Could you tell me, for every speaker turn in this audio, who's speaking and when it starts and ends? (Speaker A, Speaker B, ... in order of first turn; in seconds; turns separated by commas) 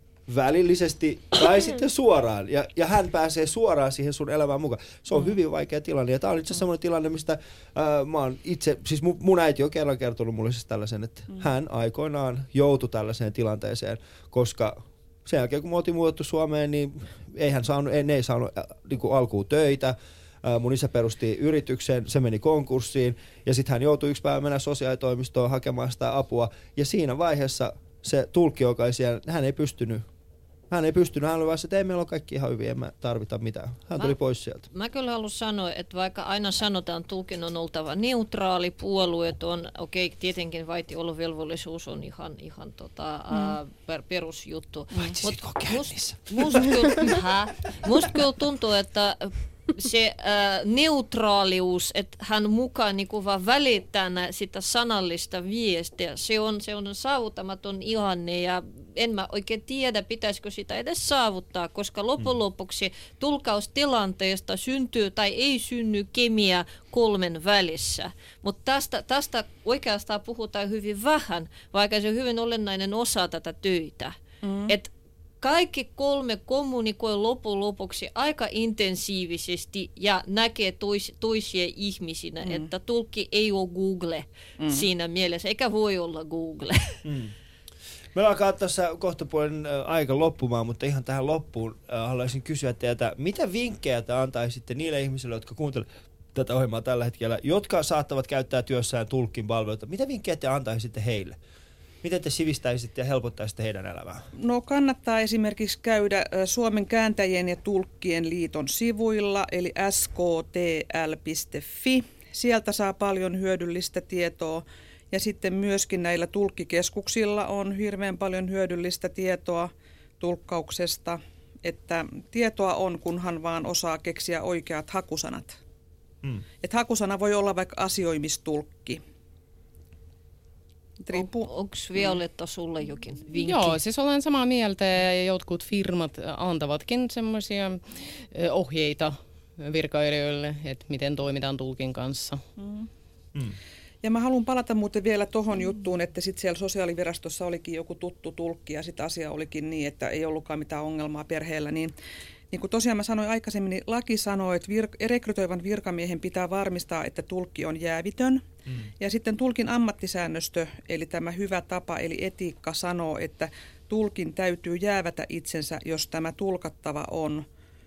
Speaker A: 0.3-30.1, Speaker A: 30.7-34.6, Speaker B: 34.7-74.2, Speaker A: 45.0-47.2, Speaker C: 74.4-74.8, Speaker B: 75.4-87.0, Speaker C: 82.4-82.7, Speaker C: 84.6-84.9, Speaker A: 87.0-87.3, Speaker A: 88.1-101.4, Speaker A: 102.0-104.3, Speaker C: 104.3-125.6, Speaker C: 126.6-129.0, Speaker C: 131.0-132.2, Speaker B: 131.1-133.8, Speaker D: 133.4-142.4, Speaker C: 142.6-142.9, Speaker C: 144.0-151.9, Speaker C: 152.5-158.4, Speaker C: 159.0-167.4